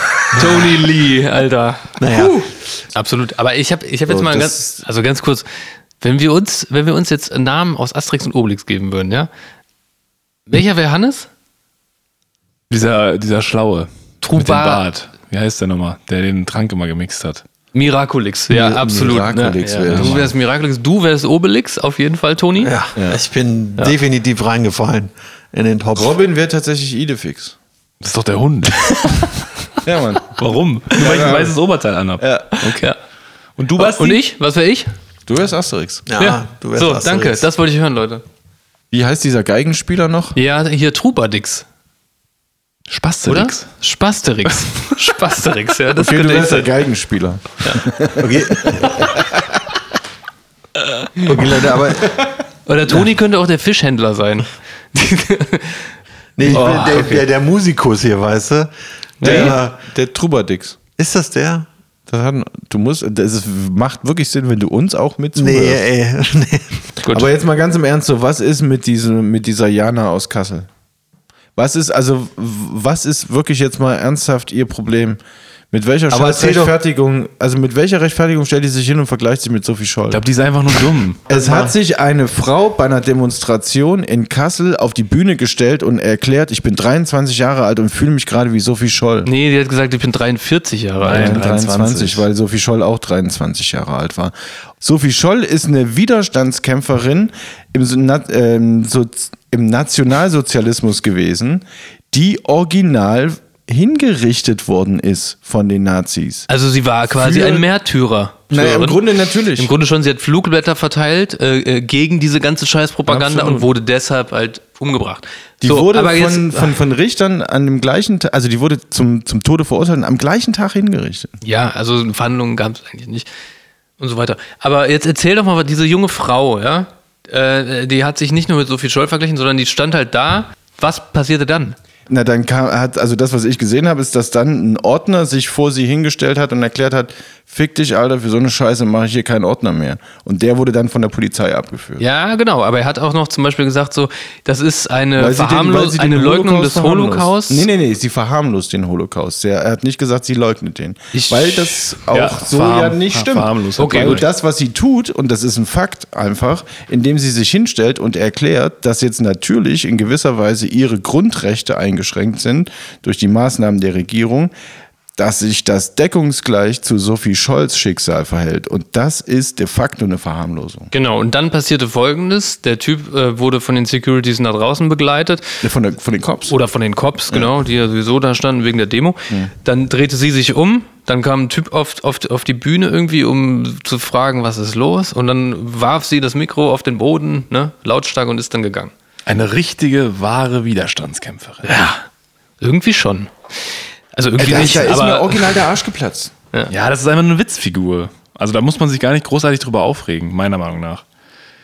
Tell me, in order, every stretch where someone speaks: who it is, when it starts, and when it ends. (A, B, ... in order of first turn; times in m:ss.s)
0:00.3-0:05.4 A
0:00.4-0:00.6 B
0:02.0-0:02.4 B
0:04.1-0:04.8 C
0:06.0-0:09.3 A
0:10.5-0:11.3 A
0:12.7-0:17.4 D
0:14.2-0:14.8 A
0:17.7-0:22.7 A
0:18.5-0:20.3 C
0:19.9-0:20.2 D
0:22.6-0:26.1 B
0:23.0-0:23.2 C
0:25.9-0:27.6 C
0:28.0-0:29.3 D
0:29.8-0:30.4 C
0:30.3-0:32.9 D
0:30.9-0:31.5 C
0:31.0-0:31.3 A
0:32.2-0:32.5 C
0:32.6-0:33.0 A
0:33.6-0:34.2 D
0:33.8-0:34.9 A
0:35.3-0:36.1 C
0:36.1-0:37.4 B
0:36.2-0:38.2 A
0:38.9-0:40.4 C
0:40.3-0:41.6 A
0:42.9-0:43.6 D
0:43.3-0:46.7 A
0:46.0-0:49.4 C
0:48.2-0:49.0 B
0:51.2-0:52.2 B
0:52.6-0:55.9 A
0:56.4-0:58.7 B
0:56.5-0:57.2 A
0:59.2-0:59.6 A
0:59.2-0:59.8 B
0:59.2-1:00.8 C
1:01.0-1:01.7 B
1:02.1-1:05.8 C
1:05.4-1:06.8 B
1:07.0-1:07.3 A
1:07.1-1:10.7 C
1:11.6-1:20.2 C
1:16.1-1:16.7 B
1:20.1-1:21.2 D
1:21.3-1:29.3 C
1:21.3-1:21.7 B
1:29.2-1:32.0 A
1:31.0-1:46.5 C
1:31.0-1:32.2 D
1:46.5-1:49.0 A
1:47.1-1:47.6 C
1:48.5-1:49.7 C
1:49.6-1:56.8 A
1:53.1-1:53.7 C
1:55.6-2:01.4 C
2:01.4-2:03.3 A
2:04.0-2:11.8 A
2:12.1-2:22.0 C
2:22.0-2:27.7 A
2:25.2-2:44.5 C
2:31.1-2:31.8 A
2:32.1-2:34.2 D
2:33.8-2:34.2 A
2:45.2-2:50.9 C
2:50.9-2:55.6 A
2:55.6-2:56.6 C
2:56.5-3:08.9 A
3:09.2-3:11.8 D
3:11.6-3:12.0 A
3:12.6-3:13.3 A
3:14.1-3:15.4 A
3:14.4-3:16.3 C
3:16.7-3:21.0 D